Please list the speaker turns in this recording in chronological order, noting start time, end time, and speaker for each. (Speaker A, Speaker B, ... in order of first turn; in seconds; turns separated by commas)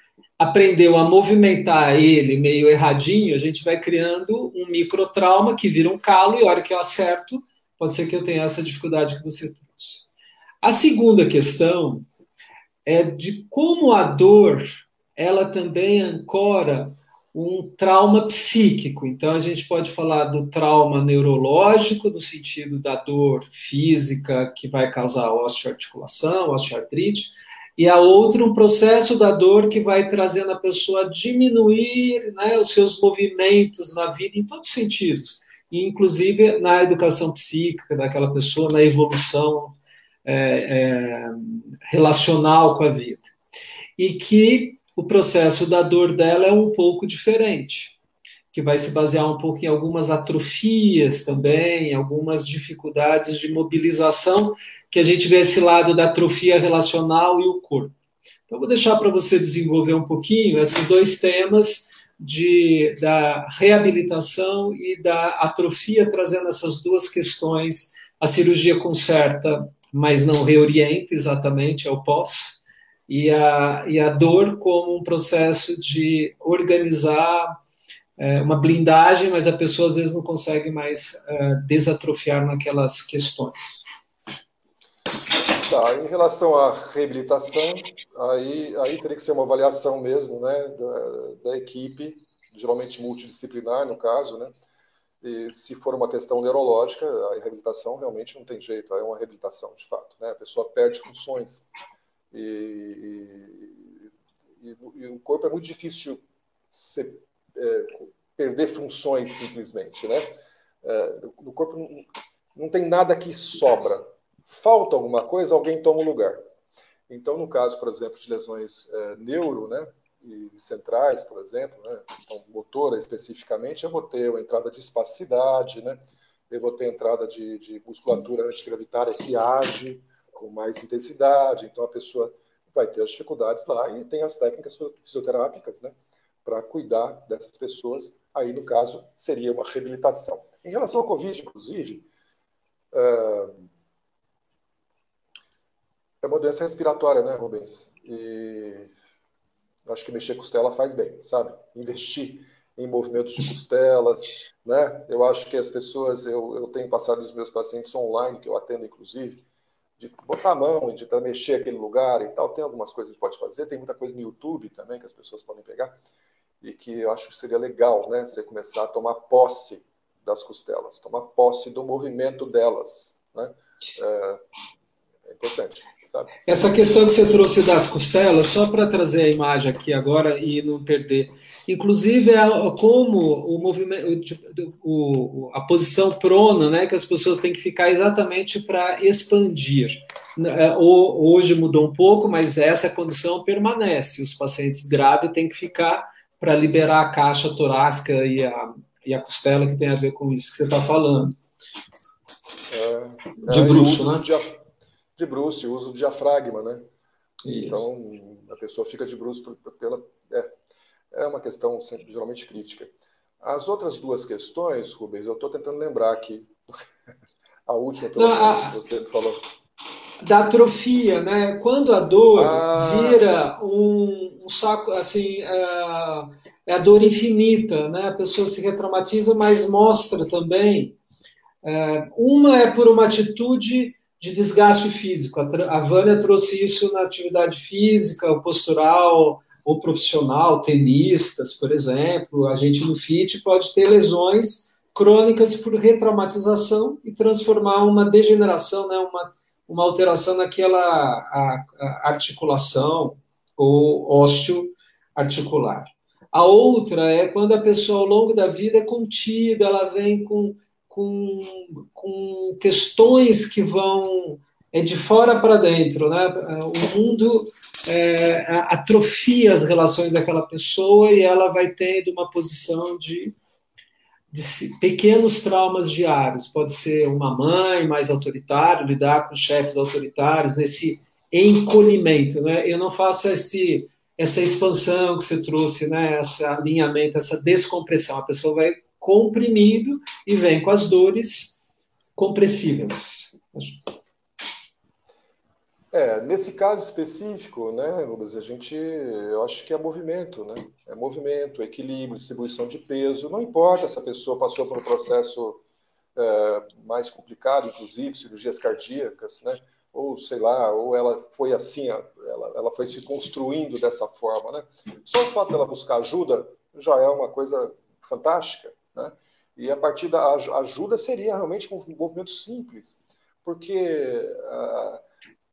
Speaker A: 0.4-10.1, Speaker A: 10.6-12.1, Speaker A: 12.8-43.3, Speaker A: 44.0-48.0, Speaker A: 48.5-57.9, Speaker A: 58.5-77.5, Speaker A: 78.2-83.9, Speaker B: 85.6-94.5, Speaker B: 95.2-101.7, Speaker B: 102.3-104.0, Speaker B: 104.6-106.2, Speaker B: 106.7-110.3, Speaker B: 110.8-116.4, Speaker B: 117.1-135.9, Speaker B: 136.4-142.1, Speaker B: 142.9-143.6, Speaker B: 146.2-148.9, Speaker B: 149.8-159.4, Speaker B: 160.0-165.9, Speaker B: 166.6-174.4, Speaker B: 175.2-176.3, Speaker A: 176.4-201.3, Speaker B: 202.7-204.6, Speaker A: 203.4-204.2, Speaker B: 205.2-206.8, Speaker A: 207.4-207.8, Speaker B: 207.7-210.6, Speaker B: 211.1-216.8, Speaker B: 217.7-219.4, Speaker A: 218.2-218.8, Speaker A: 220.2-230.9, Speaker B: 222.3-223.4, Speaker A: 231.6-273.4, Speaker A: 274.3-291.6, Speaker A: 292.1-293.8, Speaker B: 295.9-305.6, Speaker B: 306.1-325.0